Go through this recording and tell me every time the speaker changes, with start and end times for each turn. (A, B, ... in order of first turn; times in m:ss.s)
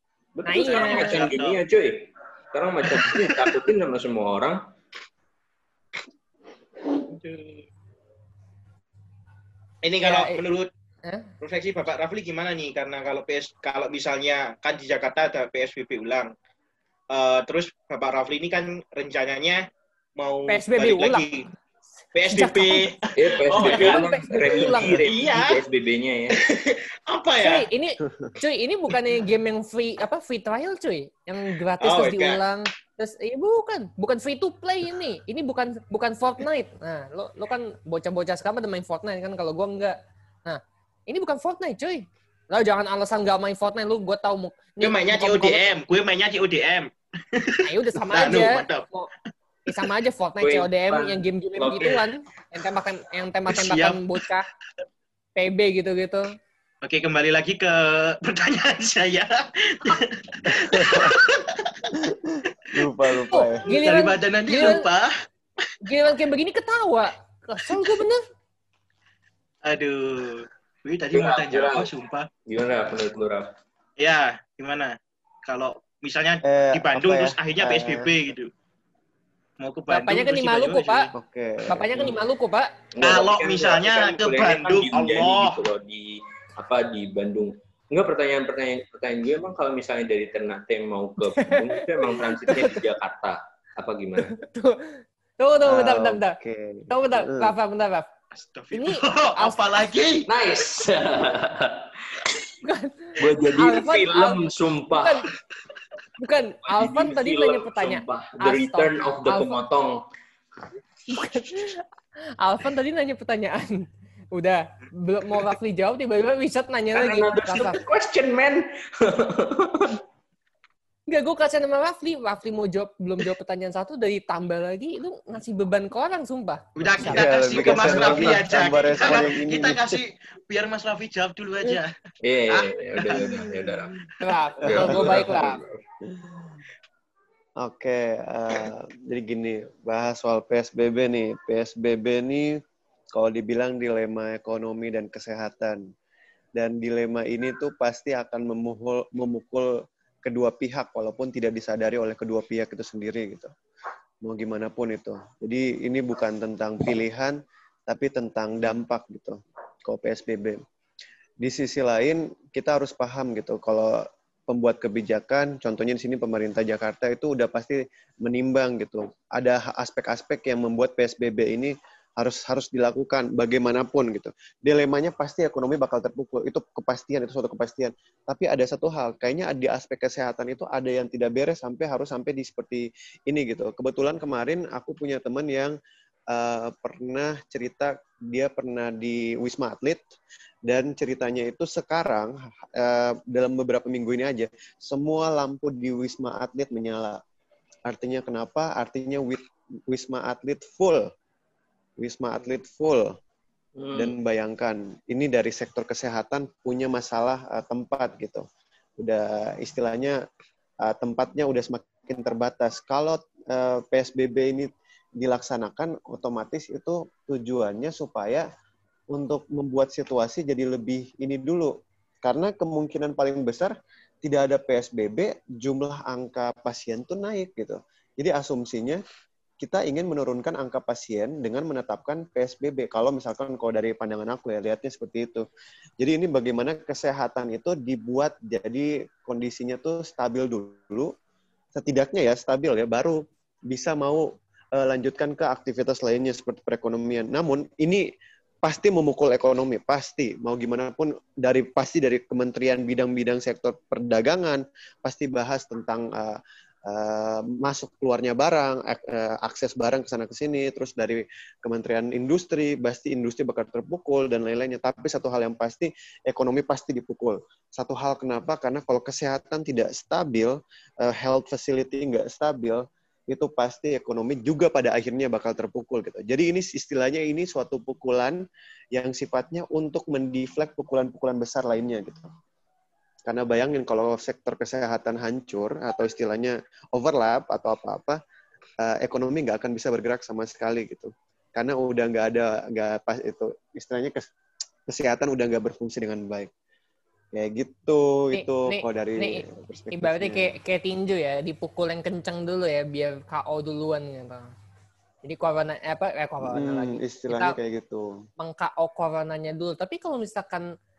0:00.4-0:04.6 A
0:00.5-0:01.3 B
0:00.6-0:01.6 C
0:02.9-0:03.4 C
0:07.0-0:07.6 C
0:09.8-0:10.7 C
0:10.0-0:10.4 B
0:11.4-0:16.3 C
0:17.1-0:19.6 C
0:20.2-0:21.5 C
0:20.5-0:21.2 B
0:22.2-0:25.6 C
0:22.3-0:22.9 B
0:23.2-0:26.4 A
0:23.6-0:25.1 B
0:26.4-0:27.7 C
0:27.4-0:45.6 B
0:31.8-0:32.4 C
0:44.8-0:48.9 C
0:47.6-0:49.1 B
0:49.7-0:54.5 B
0:50.4-0:52.1 A
0:53.5-0:54.0 C
0:55.4-0:56.3 B
0:56.8-1:01.8 C
1:00.6-1:01.1 D
1:01.9-1:03.7 D
1:03.3-1:04.9 B
1:03.7-1:05.1 C
1:05.8-1:08.2 B
1:09.6-1:12.3 C
1:11.1-1:11.9 A
1:12.5-1:13.5 A
1:14.0-1:18.5 C
1:16.4-1:18.1 D
1:19.6-1:21.1 C
1:19.9-1:21.1 B
1:21.1-1:22.2 D
1:21.7-1:22.7 B
1:23.0-1:34.3 A
1:23.0-1:25.6 C
1:31.4-1:32.8 B
1:34.2-1:36.4 B
1:35.7-1:37.5 D
1:36.9-1:38.1 B
1:38.3-1:40.3 C
1:38.7-1:39.6 B
1:40.3-1:42.4 A
1:42.6-1:45.3 B
1:43.2-1:45.2 A
1:46.2-1:49.6 B
1:46.6-1:50.0 A
1:51.1-1:51.8 B
1:52.4-1:57.8 B
1:56.9-2:00.0 A
2:01.1-2:07.3 B
2:06.8-2:11.9 C
2:07.1-2:10.0 D
2:07.6-2:08.4 A
2:12.2-2:14.1 A
2:12.5-2:13.8 C
2:14.2-2:15.6 B
2:14.6-2:15.8 A
2:14.6-2:15.3 D
2:16.1-2:16.4 D
2:17.6-2:22.6 D
2:23.1-2:25.8 D
2:26.6-2:33.5 D
2:34.2-2:40.6 D
2:41.4-3:05.8 D
3:06.3-3:10.0 D
3:10.7-3:17.2 D
3:17.9-3:21.1 D
3:22.0-3:23.2 D
3:23.8-3:24.2 A
3:23.9-3:28.4 D
3:29.0-3:30.2 D
3:30.8-3:38.5 D
3:39.1-3:49.0 D
3:49.6-3:55.5 D
3:56.0-4:01.1 D
4:01.8-4:08.1 D
4:08.6-4:38.4 D
4:39.0-4:42.3 D
4:43.3-4:48.2 D
4:48.8-4:54.3 D
4:54.9-4:56.5 D
4:57.3-5:00.5 D
4:58.3-5:04.5 B
5:05.2-5:07.6 B
5:06.4-5:08.2 D
5:08.4-5:10.7 B